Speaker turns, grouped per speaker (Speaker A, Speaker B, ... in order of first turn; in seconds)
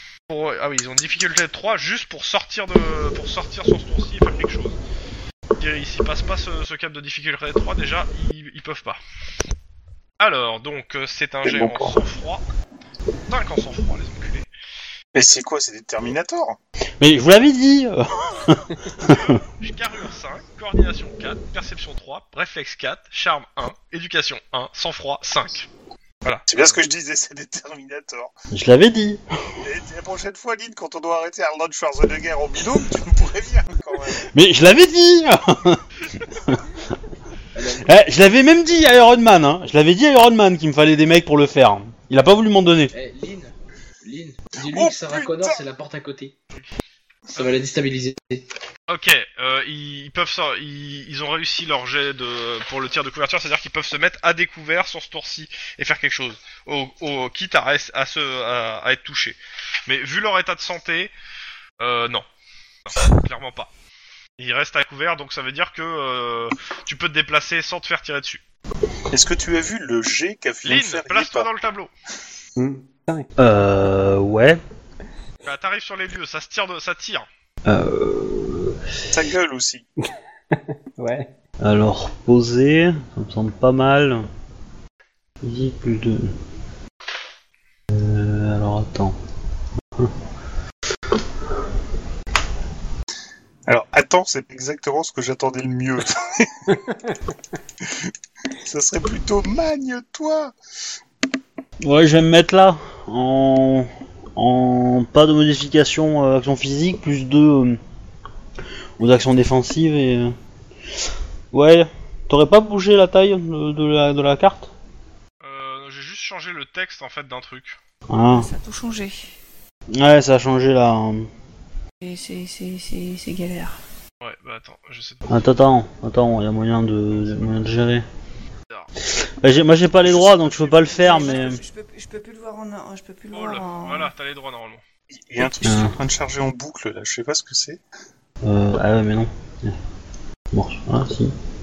Speaker A: 0.3-4.8, 5.6-9.0, 10.2-12.4, 13.3-14.5, 19.0-25.7, 26.2-26.7, 48.9-61.1, 61.8-62.3, 62.9-63.7, 64.4-68.4, 70.7-71.9, 75.5-77.3, 115.4-117.8, 124.2-125.4, 133.3-134.8
Speaker B: 11.4-12.0, 15.1-16.6, 26.5-28.3, 29.6-34.2, 44.6-45.6, 69.1-71.5, 79.1-79.8, 93.7-96.7, 97.8-100.5, 130.1-130.6, 135.1-137.8
Speaker C: 17.0-19.4, 28.5-29.2, 34.3-35.9, 37.8-42.9, 73.4-74.6, 77.7-78.8, 81.6-84.2, 85.4-86.3, 87.9-89.2, 101.8-107.8, 109.0-110.3, 111.5-114.7, 118.1-118.5, 119.9-121.3, 125.3-128.1, 129.4-131.6, 135.6-135.9, 138.4-139.8, 140.5-141.3
Speaker D: 37.5-37.9, 42.9-46.4, 47.3-48.5
Speaker E: 72.6-73.3, 80.0-81.3, 96.9-97.1
Speaker F: 118.3-119.3, 122.0-123.8, 130.7-134.1